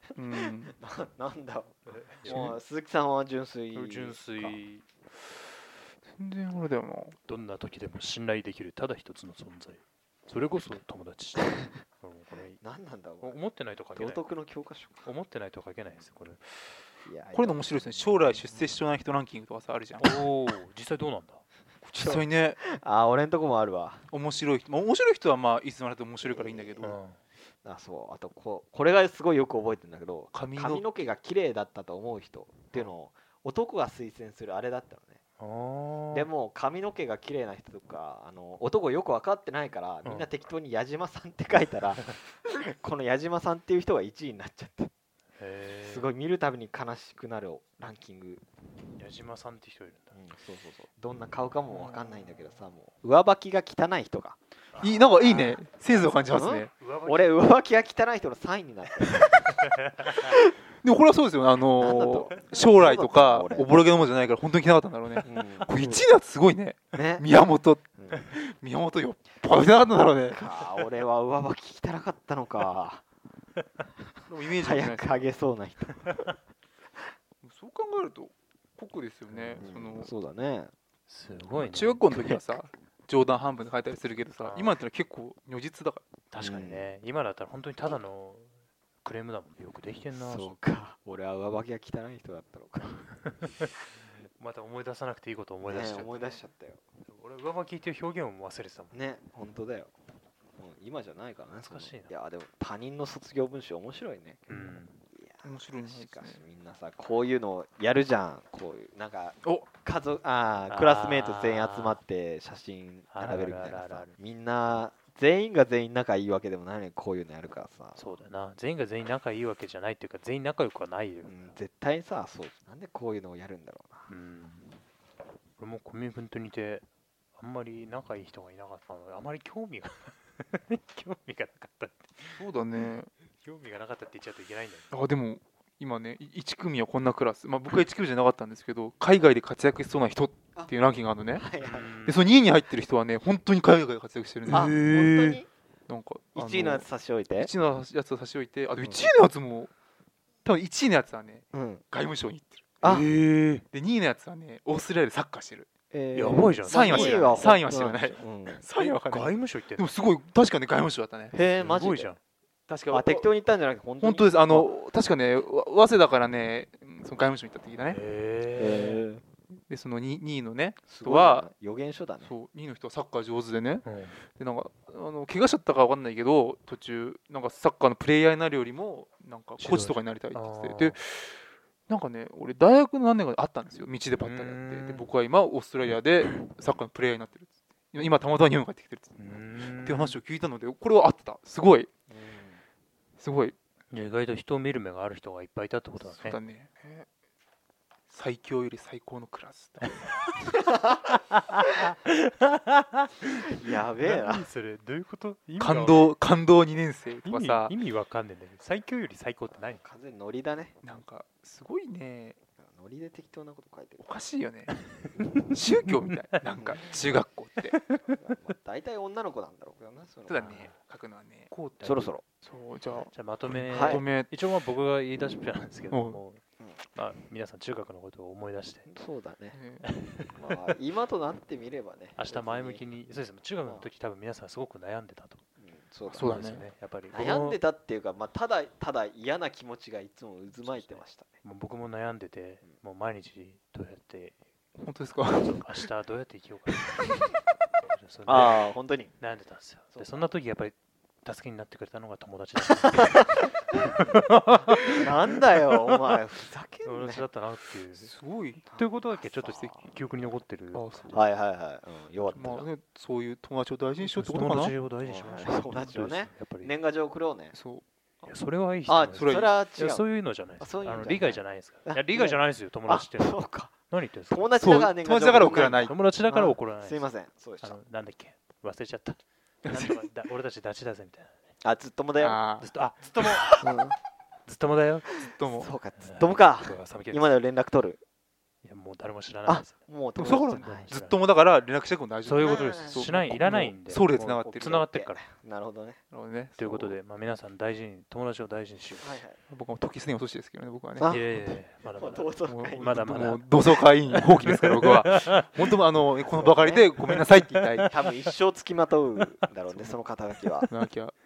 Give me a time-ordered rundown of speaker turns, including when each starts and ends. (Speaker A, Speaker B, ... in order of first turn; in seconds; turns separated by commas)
Speaker A: 0.2-0.7, Speaker B: 0.7-4.6, Speaker C: 1.9-2.5, Speaker A: 2.3-2.6, Speaker C: 3.7-4.9, Speaker A: 6.2-7.2, Speaker C: 7.3-12.6, Speaker B: 12.6-13.4, Speaker C: 13.2-14.2, Speaker B: 13.9-15.1, Speaker C: 15.1-16.6, Speaker B: 17.1-18.7, Speaker A: 17.3-20.2, Speaker C: 20.0-21.4, Speaker B: 21.9-24.1, Speaker A: 21.9-22.6, Speaker A: 24.1-26.9, Speaker B: 26.2-27.0, Speaker C: 26.8-27.2, Speaker B: 27.6-35.2, Speaker A: 30.3-30.9, Speaker C: 35.4-36.3, Speaker B: 36.1-44.9, Speaker C: 40.0-40.3, Speaker C: 45.4-46.1, Speaker B: 45.8-48.4, Speaker C: 49.0-50.2, Speaker B: 50.1-54.4, Speaker C: 51.7-52.5, Speaker C: 54.7-57.4, Speaker A: 54.8-56.7, Speaker B: 55.2-55.6, Speaker B: 56.3-59.6, Speaker C: 59.2-60.1, Speaker A: 60.8-70.5, Speaker B: 61.8-63.7, Speaker B: 65.2-66.0, Speaker B: 66.9-67.3, Speaker B: 68.0-68.3, Speaker B: 70.3-73.0, Speaker A: 74.3-75.2, Speaker B: 74.6-76.2, Speaker A: 77.4-80.1, Speaker C: 79.4-79.7, Speaker B: 79.6-80.7, Speaker C: 81.1-82.0, Speaker A: 81.6-86.0, Speaker C: 84.4-84.7, Speaker C: 86.3-88.5, Speaker B: 86.4-86.9, Speaker C: 89.0-90.6, Speaker B: 90.2-93.1, Speaker C: 93.3-93.7, Speaker C: 94.4-96.3, Speaker B: 95.7-96.8, Speaker C: 97.1-99.0, Speaker B: 98.9-99.9, Speaker B: 100.6-118.0, Speaker C: 101.7-102.1, Speaker C: 104.5-105.0, Speaker A: 105.4-106.4, Speaker C: 110.7-112.0, Speaker C: 113.1-114.1, Speaker C: 118.0-121.6, Speaker B: 121.3-124.1, Speaker C: 124.1-124.8, Speaker C: 125.6-126.8, Speaker C: 127.4-132.4, Speaker A: 132.4-133.1, Speaker C: 133.3-134.9, Speaker A: 134.9-141.4, Speaker B: 141.3-141.9, Speaker C: 141.6-142.2, Speaker A: 142.1-144.8, Speaker B: 144.5-145.5, Speaker C: 144.5-145.4, Speaker A: 145.9-146.9, Speaker B: 146.4-147.5, Speaker A: 147.4-149.7, Speaker B: 148.8-149.1, Speaker A: 150.4-152.8, Speaker B: 151.5-151.8, Speaker B: 152.8-153.1, Speaker C: 152.8-153.6, Speaker A: 153.7-155.7, Speaker B: 155.9-158.6, Speaker C: 156.1-157.5, Speaker A: 156.7-161.3, Speaker C: 158.8-159.9, Speaker B: 161.3-162.1, Speaker C: 161.6-162.2, Speaker A: 162.7-163.3, Speaker B: 162.9-164.7, Speaker A: 164.0-168.0, Speaker C: 167.9-169.0, Speaker B: 168.6-169.2, Speaker A: 169.7-171.5, Speaker B: 170.9-172.3, Speaker A: 172.2-189.2, Speaker C: 173.8-174.2, Speaker C: 179.6-181.0, Speaker C: 184.2-185.1, Speaker C: 189.2-190.2, Speaker A: 189.8-191.9, Speaker B: 192.1-192.6, Speaker A: 193.2-193.6, Speaker C: 193.9-196.4, Speaker A: 196.1-197.1, Speaker A: 198.1-200.1, Speaker C: 201.3-206.2, Speaker B: 203.5-204.5, Speaker A: 205.6-207.7, Speaker C: 207.2-209.8, Speaker B: 209.7-210.8, Speaker A: 210.8-212.4, Speaker B: 212.6-214.0, Speaker A: 214.0-214.8, Speaker C: 214.8-216.4, Speaker A: 215.5-217.8, Speaker B: 216.5-216.8, Speaker C: 217.6-218.1, Speaker B: 218.1-220.7, Speaker A: 220.3-221.5, Speaker C: 221.5-222.1, Speaker B: 221.8-222.2, Speaker A: 222.4-224.3, Speaker C: 223.1-228.9, Speaker B: 223.7-224.1, Speaker A: 225.9-226.2, Speaker B: 228.9-229.6, Speaker A: 229.5-229.9, Speaker C: 229.8-230.5, Speaker B: 230.4-232.8, Speaker C: 232.2-235.4, Speaker B: 235.6-236.5, Speaker C: 236.1-237.6, Speaker A: 236.1-236.6, Speaker B: 237.1-241.3, Speaker C: 240.6-244.4, Speaker A: 244.8-245.7, Speaker C: 245.3-247.2, Speaker C: 247.9-255.1, Speaker B: 248.3-249.1, Speaker B: 249.9-250.2, Speaker B: 252.8-253.5, Speaker B: 254.9-257.2, Speaker C: 256.8-258.1, Speaker A: 258.1-258.6, Speaker B: 258.7-259.9, Speaker C: 258.7-261.2, Speaker A: 260.7-261.2, Speaker B: 261.1-262.7, Speaker A: 262.3-264.8, Speaker C: 264.0-266.7, Speaker B: 265.0-267.5, Speaker A: 267.5-267.8, Speaker C: 268.2-274.5, Speaker B: 268.9-270.0, Speaker A: 269.1-269.5, Speaker B: 270.6-273.8, Speaker B: 274.3-277.8, Speaker A: 274.6-276.0, Speaker C: 275.5-277.1, Speaker C: 277.6-281.4, Speaker A: 279.7-279.9, Speaker B: 281.6-282.4, Speaker A: 282.2-282.7, Speaker C: 282.6-283.6, Speaker A: 283.2-283.6, Speaker B: 283.6-284.0, Speaker C: 284.5-285.1, Speaker A: 285.2-285.7, Speaker B: 285.4-288.0, Speaker C: 286.0-287.3, Speaker C: 288.6-289.8, Speaker B: 289.5-290.9, Speaker A: 290.2-294.8, Speaker C: 290.6-291.2, Speaker C: 292.2-295.2, Speaker B: 292.4-293.0, Speaker B: 294.1-296.0, Speaker A: 296.1-297.0, Speaker C: 296.6-299.2, Speaker B: 299.0-299.4, Speaker A: 299.5-301.2, Speaker B: 301.0-301.3, Speaker C: 301.0-305.7, Speaker B: 301.9-303.0, Speaker A: 302.5-307.9, Speaker B: 306.2-306.9, Speaker C: 307.2-308.1, Speaker B: 307.9-310.7, Speaker A: 309.7-310.0, Speaker A: 310.6-311.1